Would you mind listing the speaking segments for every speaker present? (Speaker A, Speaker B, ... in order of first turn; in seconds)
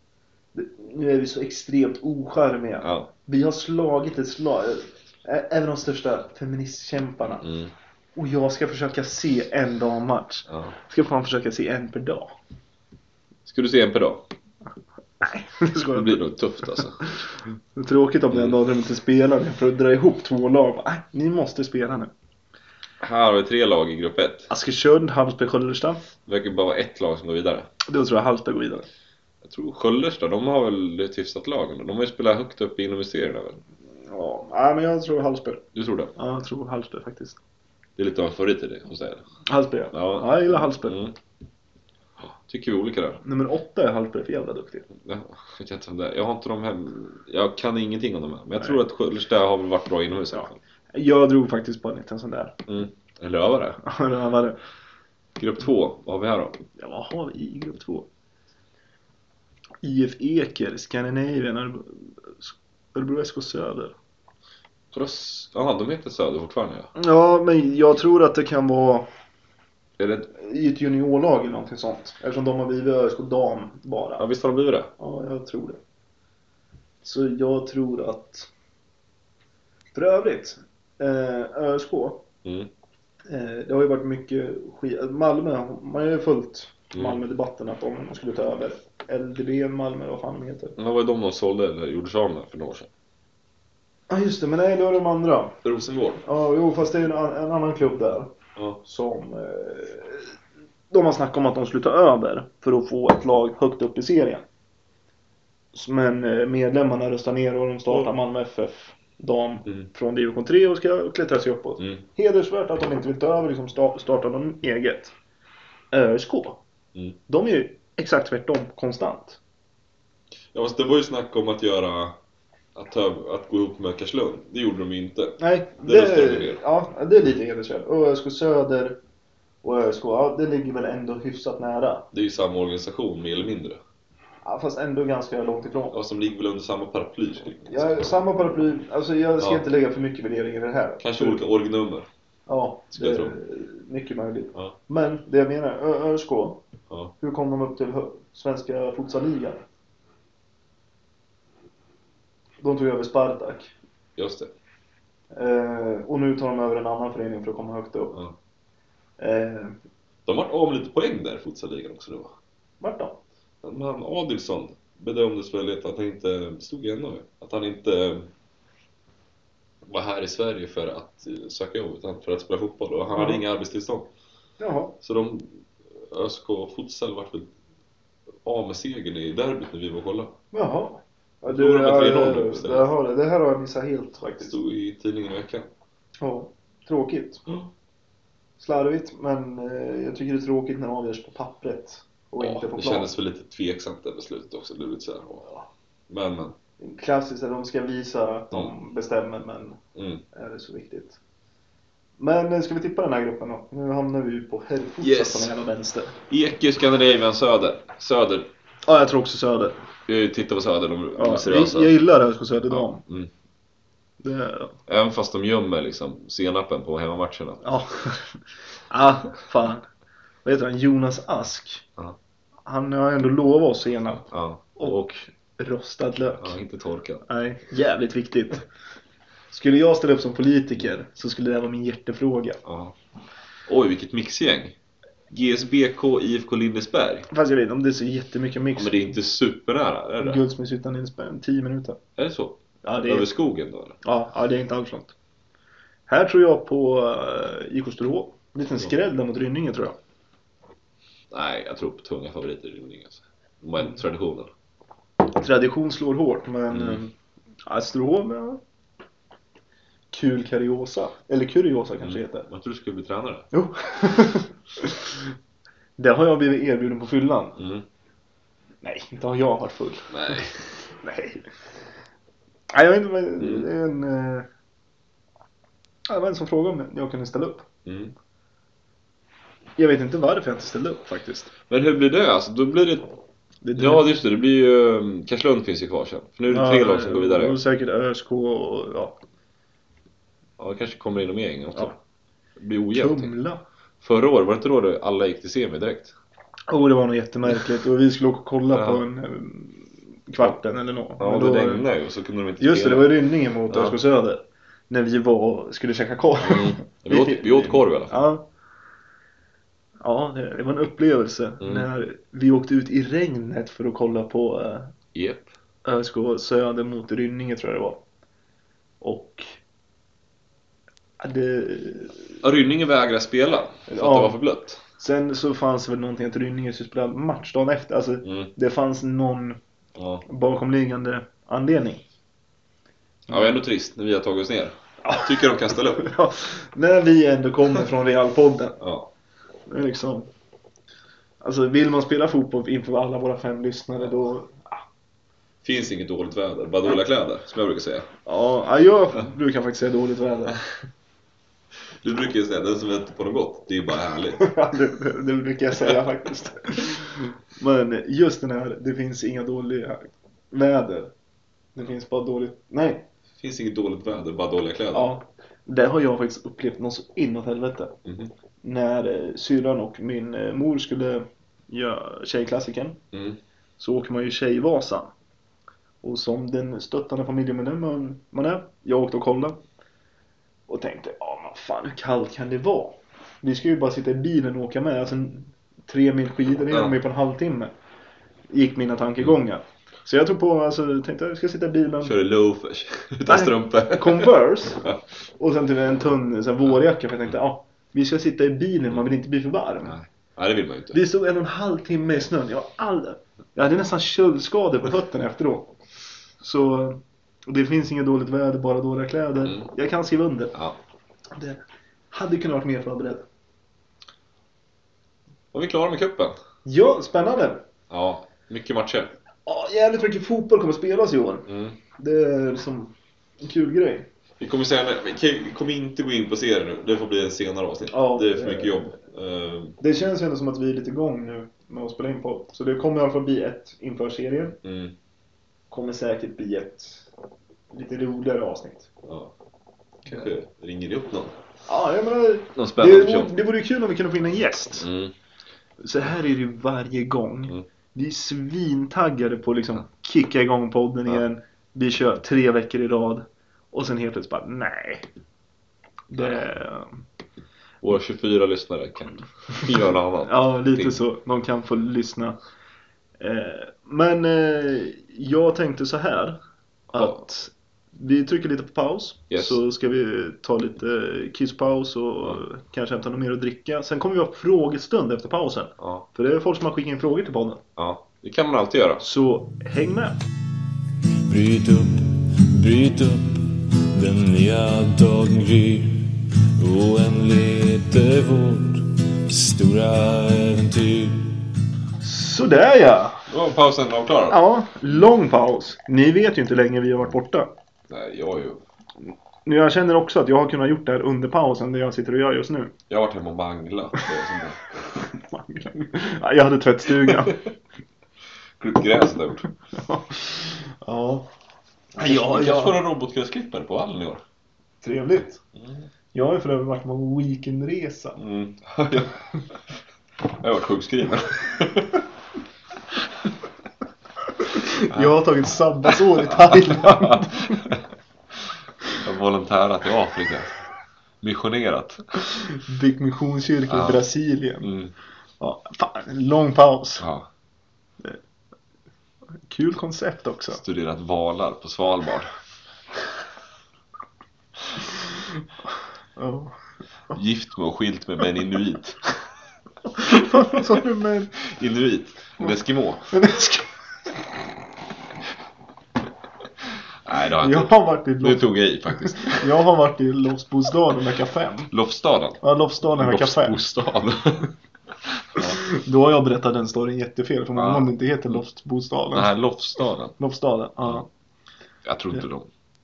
Speaker A: 0.5-7.4, 8.1-12.3, 15.2-22.1, 24.5-26.0, 27.8-28.9, 34.0-35.6, 36.1-37.4, 39.5-41.0, 43.2-44.9, 50.9-52.6, 53.8-54.6, 56.8-58.1, 59.8-63.9, 66.9-69.1, 70.3-74.2, 75.0-75.8, 77.0-78.5, 79.9-82.2, 83.3-90.8, 94.1-95.6, 96.2-98.3, 98.8-100.3, 100.9-104.4, 105.7-115.1, 115.9-116.6, 117.3-119.4, 125.4-129.0, 129.6-132.1, 134.4-135.9, 137.7-141.4, 142.5-146.6, 147.2-149.6, 152.6-153.7, 155.3-158.2, 159.2-159.8, 162.8-163.2, 173.1-173.4, 174.6-174.9, 180.5-184.6, 186.2-187.4, 188.6-193.1, 196.8-199.8, 200.3-201.2, 202.2-206.2, 208.8-209.8, 211.1-213.0, 214.2-214.8, 217.6-219.8, 220.4-221.8, 222.7-226.6, 227.3-228.6, 229.5-232.6, 237.3-239.1, 240.2-242.0, 242.8-243.3, 244.0-245.1, 246.1-250.0, 255.3-257.1, 257.7-258.6, 260.1-262.5, 263.5-265.2, 266.0-267.6, 268.8-270.4, 271.0-271.5, 272.7-274.5, 276.1-277.6, 279.8-281.5, 283.6-284.1, 286.5-289.2, 292.9-293.6, 296.7-301.9, 302.6-308.5, 310.0-314.9, 315.8-318.0, 319.0-319.6, 321.2-322.4, 323.9-324.4, 325.0-329.6, 330.2-332.0, 335.0-335.4, 335.9-338.8, 339.7-340.3, 341.4-344.8, 348.2-350.6, 354.4-361.1, 361.7-363.1, 364.9-367.9, 368.6-373.0, 373.8-375.1, 376.0-379.6, 380.7-387.7, 388.5-392.1, 393.2-394.8, 395.4-400.0, 400.9-405.7, 406.4-410.5, 411.3-413.2, 416.6-417.6, 419.4-424.1, 427.9-428.9, 429.8-434.6, 435.7-437.1, 437.7-438.9, 441.7-444.9, 445.8-455.1, 456.1-457.0, 460.2-462.4, 463.2-466.4, 466.9-477.6, 479.0-480.2, 492.0-493.2, 494.3-497.5, 499.4-502.7, 504.9-507.4, 509.7-511.3, 511.9-512.8, 514.8-515.4, 516.1-518.2, 524.4-527.7, 532.3-534.7, 535.4-537.0, 539.5-540.6, 546.2-546.5, 549.9-551.3, 553.1-553.7, 557.4-561.7, 562.4-563.6, 565.4-569.3, 570.2-571.1
Speaker B: 2.8-3.1, 7.4-7.7, 10.5-10.7, 13.4-14.3, 15.9-17.0, 18.3-18.6, 23.0-24.5, 26.2-27.7, 29.4-33.6, 35.7-36.1, 38.0-39.2, 39.9-41.1, 42.2-43.2, 45.0-50.6, 52.7-53.8, 55.4-56.6, 64.9-66.9, 70.0-70.3, 74.2-74.9, 82.4-82.7, 90.8-92.9, 95.6-96.2, 120.5-122.2, 122.7-126.6, 132.1-133.8, 135.9-138.0, 139.4-139.6, 141.0-142.1, 142.9-143.3, 154.2-154.5, 160.2-162.3, 163.6-168.3, 169.8-174.1, 175.0-177.5, 178.4-180.3, 181.4-182.9, 184.4-185.7, 192.4-195.4, 196.1-196.6, 199.9-200.2, 205.0-205.5, 206.3-208.5, 210.1-211.9, 212.7-213.3, 214.9-217.6, 224.3-225.1, 226.4-227.2, 232.6-232.9, 233.7-234.7, 235.3-237.3, 238.7-240.4, 242.2-244.0, 251.3-254.5, 256.7-257.0, 262.0-263.5, 267.6-267.8, 270.1-270.6, 273.4-273.7, 277.8-278.1, 281.7-283.1, 283.8-287.6, 290.6-292.0, 292.6-293.3, 294.0-296.1, 298.7-299.0, 301.2-303.1, 303.7-304.0, 306.4-308.3, 311.6-311.9, 315.1-315.5, 322.4-324.8, 328.2-328.5, 329.9-330.2, 333.3-336.1, 338.8-339.1, 345.6-348.1, 352.0-354.5, 363.4-365.1, 368.0-368.3, 373.1-373.4, 386.7-386.9, 392.0-395.0, 399.9-401.0, 415.5-416.4, 417.9-419.1, 421.4-421.8, 424.4-429.8, 434.6-434.9, 439.0-439.3, 440.0-441.4, 442.5-443.3, 444.8-445.1, 456.2-456.4, 457.8-461.0, 466.9-467.2, 469.3-469.6, 475.8-476.1, 477.8-479.0, 493.3-494.4, 497.9-498.6, 502.9-504.9, 507.1-507.4, 508.6-509.4, 512.0-514.2, 515.5-515.9, 518.2-519.2, 520.3-522.0, 526.2-527.8, 529.0-530.5, 531.2-532.0, 533.7-534.0, 534.6-534.9, 537.0-537.3, 540.5-542.3, 547.1-549.2, 550.1-550.7, 551.4-553.1, 557.0-559.5, 561.7-562.4, 563.0-564.5, 567.5-568.4, 569.1-570.1, 571.8-572.5
Speaker C: 481.3-491.4